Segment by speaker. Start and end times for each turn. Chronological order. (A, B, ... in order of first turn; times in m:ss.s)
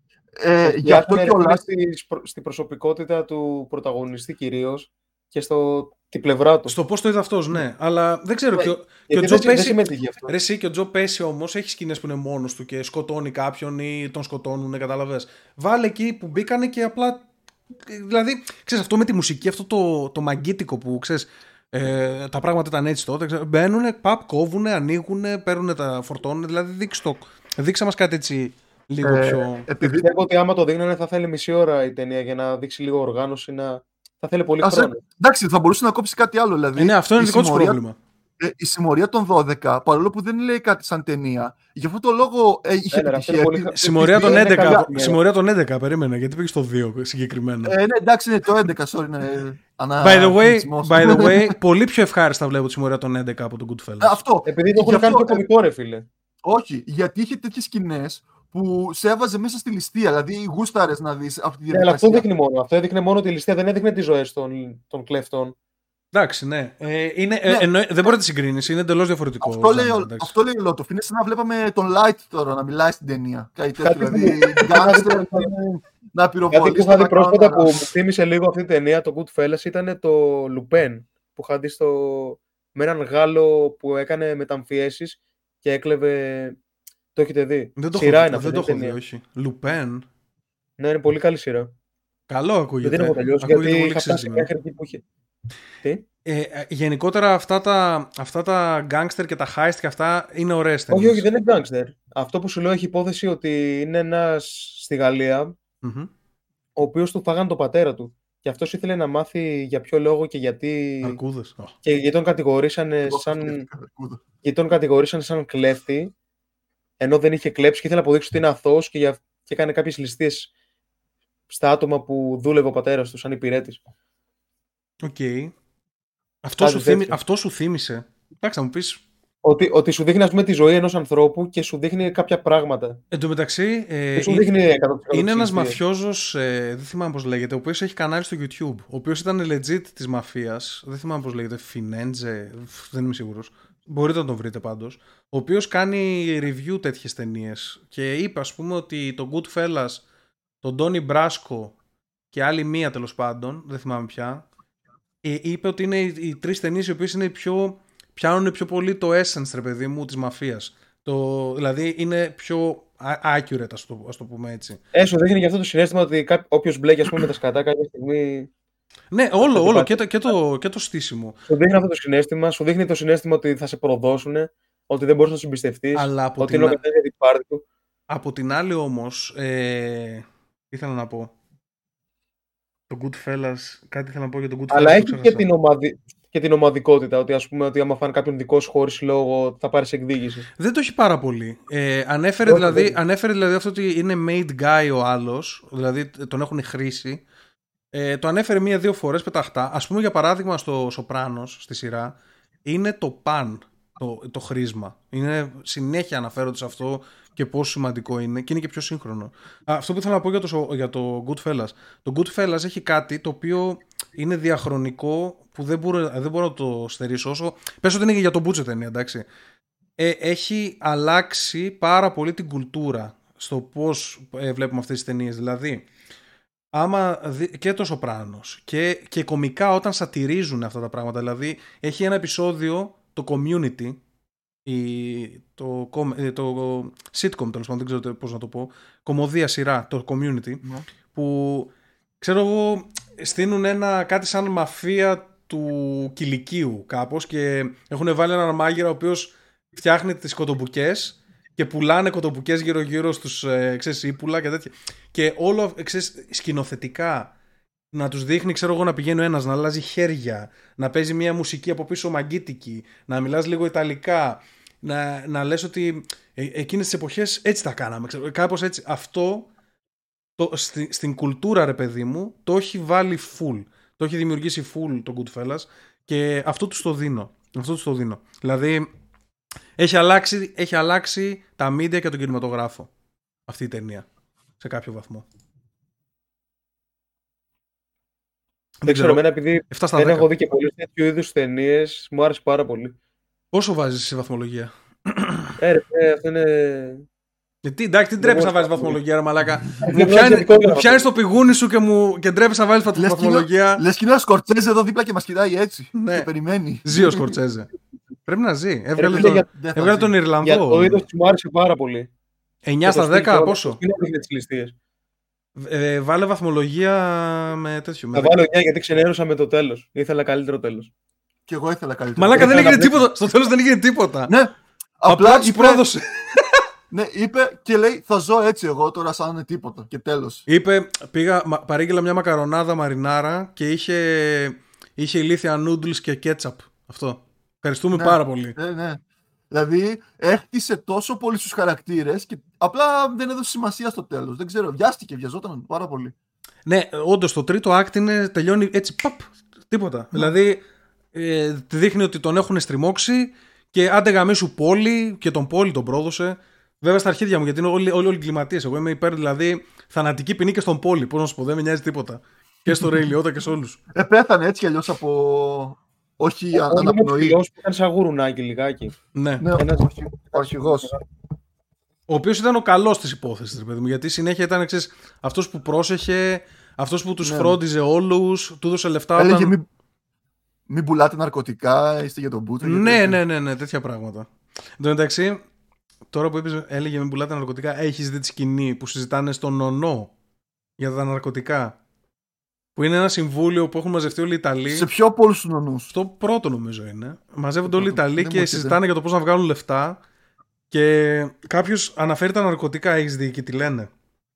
0:00.4-0:01.6 A
0:00.6-0:06.7 B
0:06.7-0:17.2 C
0:08.5-0:10.3 B
0:17.8-0:29.7 C
0:29.0-0:30.1 A
0:29.8-0:35.0 B
0:34.6-0:37.8 A
0:36.8-0:38.0 C
0:38.4-0:44.9 A
0:42.9-0:45.2 B
0:43.8-0:47.8 C
0:47.6-0:51.5 A
0:50.0-0:54.2 C
0:54.0-0:55.4 A
0:54.4-0:56.0 B
0:56.4-1:02.2 A
1:01.7-1:05.5 B
1:06.1-1:10.3 C
1:07.5-1:08.1 A
1:09.4-1:17.9 A
1:13.8-1:15.5 B
1:16.5-1:26.6 B
1:27.1-1:29.0 B
1:27.8-1:30.0 C
1:30.8-1:31.7 B
1:32.3-1:34.5 C
1:32.8-1:35.0 B
1:36.2-1:41.2 C
1:40.9-1:45.5 B
1:45.8-1:46.1 C
1:46.8-1:51.2 B
1:51.0-1:51.7 C
1:51.8-1:53.6 B
1:53.1-1:54.2 A
1:54.4-1:56.1 B
1:57.0-2:00.5 B
2:01.5-2:03.8 B
2:05.0-2:05.5 C
2:06.4-2:09.0 C
2:06.6-2:07.2 B
2:09.4-2:13.0 B
2:13.1-2:14.5 C
2:14.2-2:15.8 B
2:15.1-2:30.0 C
2:30.6-2:31.8 C
2:32.3-2:34.4 C
2:35.2-2:44.8 C
2:44.9-2:48.5 B
2:49.1-2:51.4 C
2:49.4-2:50.0 B
2:51.5-2:57.6 B
2:55.9-2:56.8 C
2:58.1-3:01.3 C
3:02.9-3:05.4 C
3:04.7-3:10.5 B
3:10.6-3:17.2 C
3:12.4-3:13.0 B
3:17.9-3:39.2 C
3:40.0-3:45.8 C
3:46.7-3:54.0 C
3:54.6-4:17.3 C
4:17.9-4:29.5 C
4:30.4-4:38.9 C
4:39.8-4:42.9 C
4:43.5-4:44.0 C
4:44.6-4:45.2 C
4:48.8-4:50.3 C
4:48.8-4:52.9 B
4:53.5-4:55.5 C
4:55.6-4:57.0 B
4:57.6-5:03.8 C
4:58.2-4:59.0 B
4:59.8-5:01.1 B
5:03.0-5:07.3 A
5:05.9-5:06.3 C
5:06.8-5:07.7 C
5:08.3-5:11.0 C
5:09.0-5:09.5 B
5:09.1-5:10.1 A
5:10.4-5:12.1 B
5:12.6-5:13.8 C
5:12.8-5:14.7 B
5:15.6-5:18.4 C
5:18.1-5:20.9 B
5:21.5-5:22.8 A
5:22.2-5:24.3 C
5:22.3-5:23.0 B
5:24.3-5:25.8 A
5:25.0-5:26.6 C
5:26.9-5:30.4 A
5:30.5-5:38.6 C
5:37.9-5:39.0 A
5:39.5-5:46.1 A
5:46.6-5:50.6 C
5:51.1-6:03.8 C
6:03.9-6:07.4 A
6:06.5-6:09.0 B
6:09.1-6:09.4 C
6:09.4-6:10.9 A
6:09.6-6:11.0 B
6:12.1-6:19.5 C
6:17.2-6:17.6 A
6:19.2-6:19.6 A
6:20.7-6:23.2 A
6:22.6-6:25.4 C
6:26.1-6:30.1 C
6:30.8-6:31.8 C
6:32.7-6:34.9 C
6:34.7-6:35.9 A
6:35.9-6:40.0 C
6:37.8-6:38.8 A
6:40.7-6:43.9 C